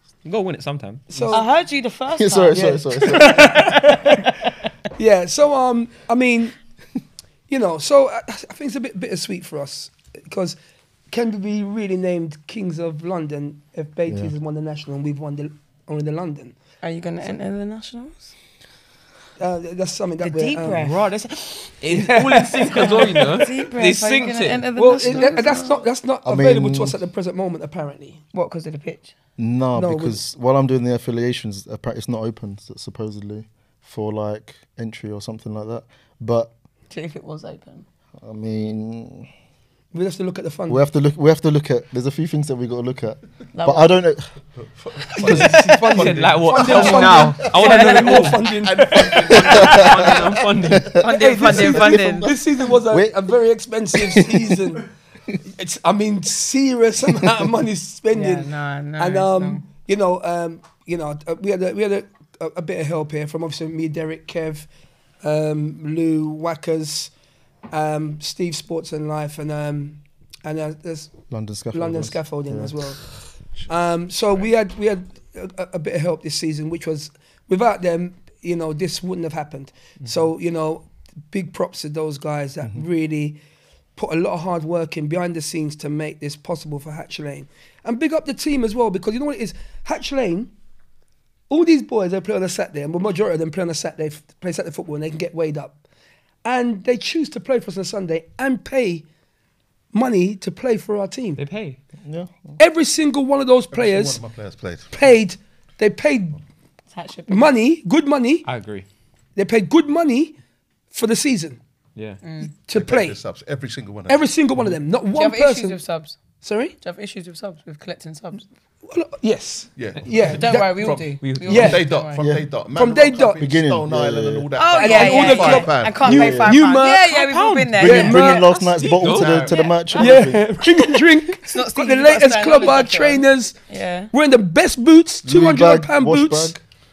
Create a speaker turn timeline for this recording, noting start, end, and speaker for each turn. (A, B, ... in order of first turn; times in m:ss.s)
0:00.2-0:01.1 A
0:01.1-0:01.5 B
0:01.3-0:04.2 C
0:02.2-0:03.7 D
0:02.5-0:04.2 B
0:05.0-0:06.6 B
0:07.5-0:10.6 B
0:11.1-0:16.6 B
0:14.1-0:14.3 D
0:16.8-0:18.3 C
0:19.4-0:20.9 B
0:20.2-0:21.0 C
0:20.8-0:25.2 A
0:21.9-0:23.3 B
0:22.7-0:25.9 C
0:24.8-0:28.2 B
0:26.2-0:27.0 D
0:28.3-0:29.1 C
0:29.4-0:36.5 D
0:29.8-0:30.2 B
0:36.9-0:37.8 C
0:38.2-0:39.3 D
0:39.9-0:40.8 B
0:40.7-0:44.2 D
0:43.6-0:43.9 C
0:44.6-0:47.8 E
0:45.1-0:49.6 B
0:45.2-0:51.0 A
0:47.6-0:48.3 C
0:48.6-0:50.4 E
0:49.4-0:50.2 D
0:50.7-0:53.3 D
0:51.0-0:52.3 C
0:51.0-0:54.9 B
0:53.9-0:54.7 D
0:55.5-1:04.7 B
0:58.1-0:59.6 C
1:05.2-1:07.1 B
1:07.7-1:11.1 B
1:11.3-1:12.8 D
1:11.7-1:23.4 B
1:24.0-1:30.5 B
1:31.5-1:35.8 B
1:36.4-1:39.1 B
1:39.9-1:41.4 B
1:41.4-1:41.8 A
1:42.0-1:42.6 D
1:42.6-1:44.2 B
1:43.7-1:45.1 E
1:44.9-1:46.4 B
1:46.9-1:47.5 C
1:47.3-1:48.5 B
1:48.5-1:48.9 A
1:49.4-1:50.4 B
1:50.9-1:51.6 B
1:52.0-1:52.2 A
1:52.2-1:52.5 C
1:52.5-1:53.2 B
1:52.7-1:54.3 E
1:54.1-1:55.8 B
1:55.1-1:56.2 C
1:56.4-1:56.8 B
1:56.8-1:58.4 C
1:58.9-2:01.8 B
1:59.8-2:00.4 E
2:00.2-2:01.8 A
2:00.4-2:02.2 C
2:01.5-2:06.1 E
2:02.2-2:02.5 D
2:02.8-2:03.4 B
2:03.4-2:04.5 D
2:04.6-2:08.4 C
2:04.8-2:07.1 B
2:06.0-2:06.6 D
2:07.0-2:09.6 A
2:07.8-2:10.5 D
2:07.8-2:08.4 B
2:09.0-2:09.5 E
2:09.3-2:10.8 C
2:10.0-2:13.6 B
2:11.4-2:14.1 C
2:14.1-2:16.5 B
2:15.2-2:16.6 D